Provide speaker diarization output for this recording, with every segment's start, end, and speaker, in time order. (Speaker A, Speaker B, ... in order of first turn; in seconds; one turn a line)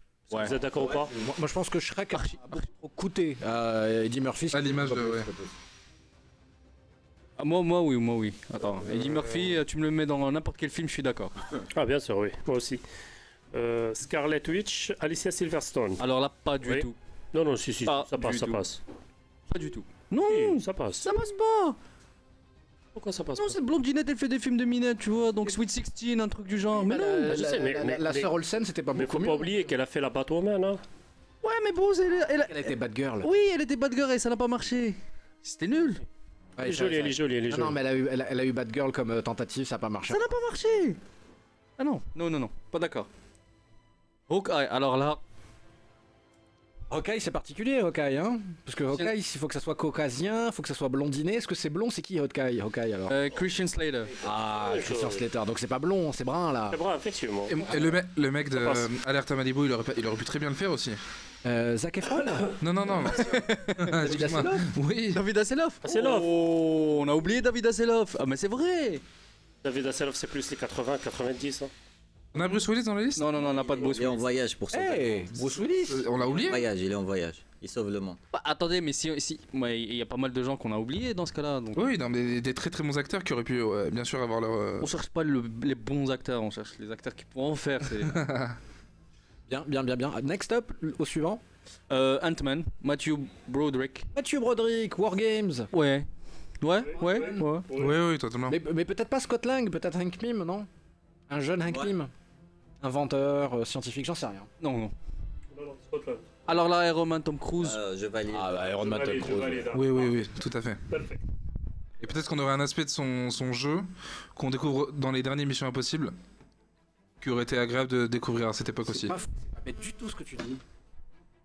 Speaker A: 0.3-1.1
Speaker B: 0.7-5.5
Speaker C: 2.1-2.6
Speaker D: 4.5-5.3
Speaker C: 7.4-11.3
Speaker A: 11.7-12.8
Speaker A: 13.5-16.0
Speaker C: 16.0-17.0
Speaker A: 16.6-18.8
Speaker C: 17.8-18.6
Speaker C: 19.5-21.8
Speaker A: 20.3-21.2
Speaker A: 22.9-23.6
Speaker C: 23.3-27.4
Speaker B: 26.7-29.5
Speaker A: 27.3-28.3
Speaker A: 28.9-30.8
Speaker C: 31.4-36.0
Speaker B: 32.4-33.3
Speaker B: 36.6-40.2
Speaker A: 36.6-37.8
Speaker C: 40.1-41.0
Speaker C: 41.8-43.1
Speaker C: 44.3-45.2
Speaker B: 46.9-53.1
Speaker C: 53.1-54.1
Speaker B: 54.2-56.8
Speaker A: 54.2-55.2
Speaker A: 56.7-57.7
Speaker B: 57.5-58.0
Speaker D: 57.7-61.0
Speaker B: 61.4-62.6
Speaker D: 62.6-65.2
Speaker C: 63.1-64.2
Speaker B: 64.0-64.7
Speaker C: 65.1-69.0
Speaker A: 65.8-66.3
Speaker A: 69.6-71.7
Speaker D: 72.3-73.3
Speaker C: 73.2-74.2
Speaker E: 73.5-75.5
Speaker A: 73.7-74.0
Speaker B: 74.7-76.1
Speaker D: 75.8-76.6
Speaker E: 76.2-78.2
Speaker C: 78.3-81.9
Speaker D: 81.7-84.9
Speaker C: 84.8-88.3
Speaker D: 88.0-88.6
Speaker B: 89.5-91.4
Speaker C: 91.9-94.1
Speaker B: 94.1-95.7
Speaker C: 95.7-96.1
Speaker C: 96.6-97.7
Speaker A: 96.8-98.0
Speaker B: 97.0-97.5
Speaker D: 97.7-98.6
Speaker B: 98.5-100.7
Speaker B: 101.3-102.1
Speaker E: 101.7-101.9
Speaker B: 102.8-104.5
Speaker C: 104.6-104.9
Speaker A: 105.5-106.3
Speaker C: 106.5-107.8
Speaker E: 107.6-109.5
Speaker B: 108.3-109.7
Speaker A: 108.8-110.2
Speaker D: 109.7-110.8
Speaker A: 110.9-111.2
Speaker D: 112.0-116.1
Speaker D: 117.2-119.1
Speaker B: 118.8-120.6